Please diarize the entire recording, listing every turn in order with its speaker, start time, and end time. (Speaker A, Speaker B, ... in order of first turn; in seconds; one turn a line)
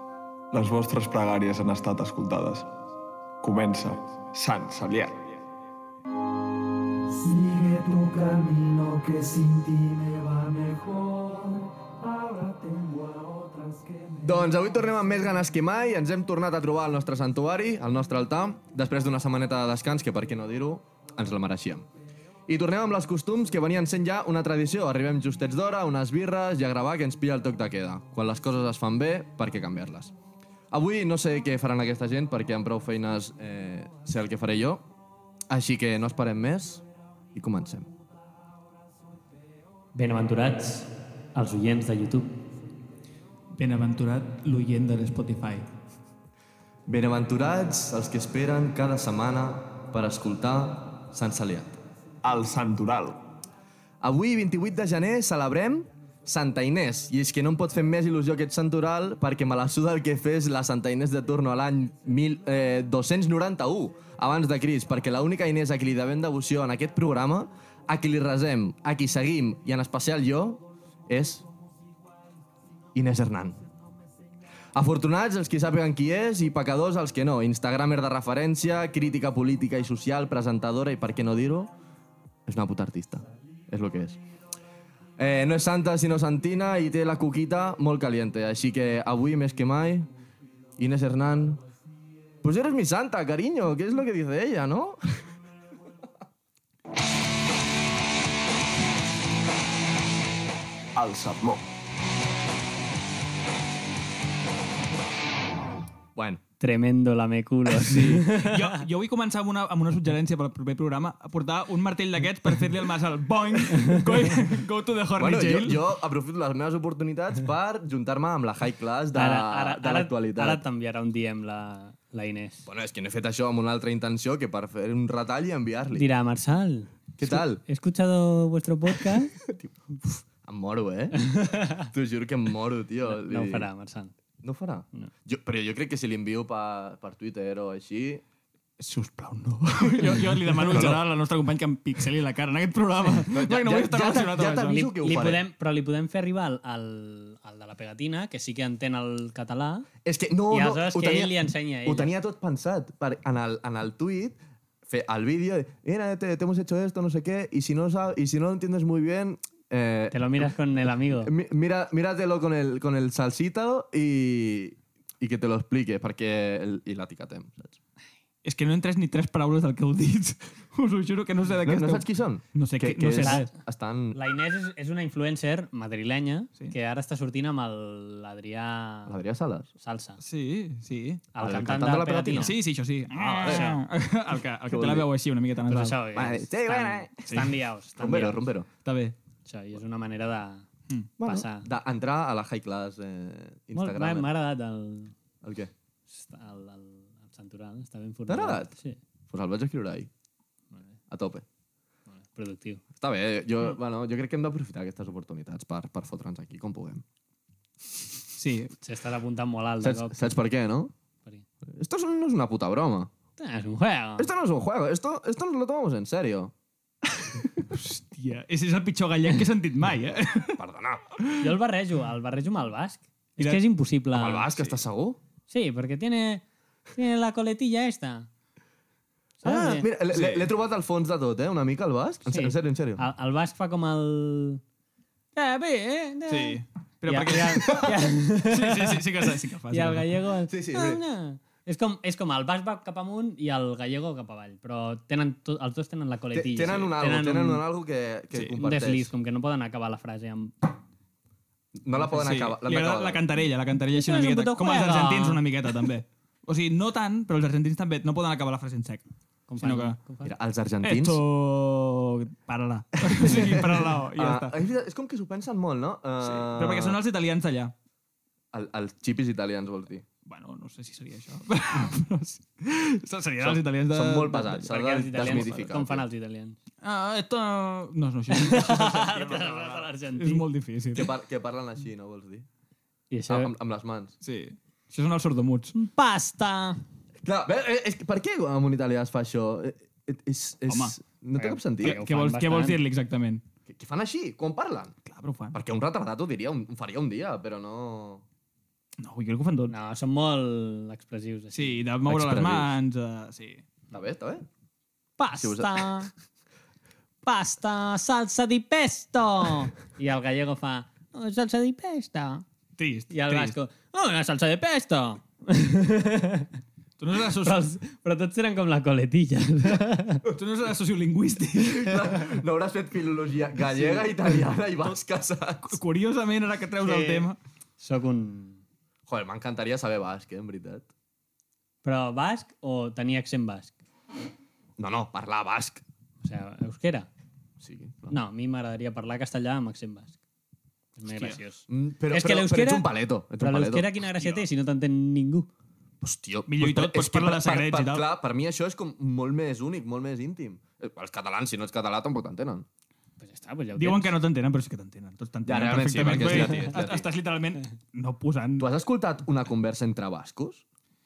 Speaker A: 0.5-2.7
Speaker A: 3.4-5.3
Speaker B: 7.1-14.5
Speaker C: 14.2-21.9
Speaker C: 22.5-30.1
Speaker C: 30.7-34.9
Speaker C: 35.5-37.9
Speaker D: 40.0-42.4
Speaker E: 43.6-45.7
Speaker C: 46.9-51.8
Speaker A: 52.2-53.2
Speaker C: 54.0-71.5
Speaker C: 73.0-73.6
Speaker C: 74.7-81.7
Speaker C: 82.5-84.2
Speaker C: 85.2-90.1
Speaker C: 90.8-91.6
Speaker C: 92.4-95.0
Speaker A: 101.0-101.7
Speaker C: 106.2-106.4
Speaker D: 106.6-108.8
Speaker E: 107.9-115.8
Speaker C: 115.2-120.6
Speaker D: 119.1-122.7
Speaker C: 122.7-126.1
Speaker D: 125.9-129.3
Speaker C: 127.2-127.6
Speaker C: 129.4-133.7
Speaker D: 131.2-131.9
Speaker D: 133.1-134.1
Speaker C: 134.4-138.2
Speaker E: 138.8-144.8
Speaker C: 140.7-141.0
Speaker C: 143.3-145.4
Speaker D: 144.7-149.9
Speaker C: 150.1-160.5
Speaker D: 150.5-152.1
Speaker D: 160.1-161.3
Speaker C: 161.2-167.8
Speaker E: 168.4-173.5
Speaker C: 171.5-174.2
Speaker D: 173.2-173.5
Speaker D: 174.1-179.2
Speaker C: 179.1-179.7
Speaker D: 179.8-180.2
Speaker E: 180.2-181.3
Speaker D: 181.3-182.5
Speaker C: 181.4-182.5
Speaker E: 182.4-186.0
Speaker D: 183.2-183.8
Speaker C: 183.2-183.7
Speaker C: 184.7-185.1
Speaker D: 185.7-188.4
Speaker C: 185.9-187.1
Speaker E: 187.3-187.6
Speaker C: 188.0-188.7
Speaker E: 188.8-189.2
Speaker D: 189.5-190.7
Speaker C: 191.2-194.3
Speaker D: 191.2-191.7
Speaker D: 193.7-195.1
Speaker C: 195.4-195.7
Speaker D: 196.1-199.0
Speaker C: 198.3-198.7
Speaker C: 199.3-200.1
Speaker C: 201.1-201.4
Speaker D: 202.1-202.8
Speaker C: 203.0-207.0
Speaker E: 208.3-208.7
Speaker D: 208.8-210.2
Speaker C: 209.8-210.9
Speaker C: 211.7-213.1
Speaker D: 213.4-214.3
Speaker C: 214.2-217.6
Speaker E: 217.7-220.6
Speaker C: 220.6-221.0
Speaker D: 221.4-224.5
Speaker C: 224.1-225.2
Speaker D: 225.5-228.3
Speaker D: 229.4-229.9
Speaker C: 229.4-233.0
Speaker E: 230.1-230.5
Speaker D: 232.3-234.6
Speaker D: 235.3-239.0
Speaker E: 236.3-240.2
Speaker D: 239.7-247.6
Speaker C: 240.5-241.0
Speaker C: 246.3-249.1
Speaker D: 248.6-250.8
Speaker C: 251.8-253.2
Speaker E: 252.1-259.0
Speaker D: 253.9-255.4
Speaker D: 259.5-260.3
Speaker E: 259.6-260.0
Speaker C: 260.2-261.2
Speaker E: 260.8-264.5
Speaker C: 263.1-267.0
Speaker E: 266.2-267.7
Speaker C: 268.5-270.1
Speaker E: 270.3-275.7
Speaker C: 273.4-276.0
Speaker D: 274.7-276.6
Speaker E: 276.8-281.1
Speaker D: 278.3-280.4
Speaker C: 280.9-282.5
Speaker D: 283.1-283.5
Speaker C: 283.3-284.1
Speaker E: 284.2-285.8
Speaker D: 285.7-286.8
Speaker C: 287.2-292.0
Speaker E: 290.7-290.9
Speaker D: 291.4-292.8
Speaker E: 291.8-293.4
Speaker C: 293.7-294.9
Speaker E: 295.1-295.6
Speaker C: 295.5-298.2
Speaker E: 299.0-299.7
Speaker D: 299.7-301.8
Speaker E: 301.5-303.6
Speaker C: 302.1-302.7
Speaker C: 303.9-304.5
Speaker D: 305.2-306.1
Speaker C: 305.4-306.0
Speaker D: 307.2-312.4
Speaker E: 312.8-313.6
Speaker D: 313.1-316.5
Speaker E: 317.0-317.6
Speaker D: 317.2-320.2
Speaker E: 320.3-322.2
Speaker C: 321.5-325.8
Speaker E: 325.6-327.4
Speaker D: 326.8-328.6
Speaker C: 329.1-330.9
Speaker D: 331.8-333.7
Speaker C: 334.8-335.8
Speaker D: 336.2-337.1
Speaker C: 337.6-338.2
Speaker D: 338.1-340.2
Speaker D: 341.0-345.5
Speaker E: 341.1-341.4
Speaker C: 341.7-343.9
Speaker E: 344.2-344.4
Speaker C: 346.0-352.7
Speaker E: 346.5-348.1
Speaker D: 353.2-354.1
Speaker E: 353.8-358.7
Speaker C: 355.4-357.1
Speaker D: 356.1-356.5
Speaker C: 358.6-360.6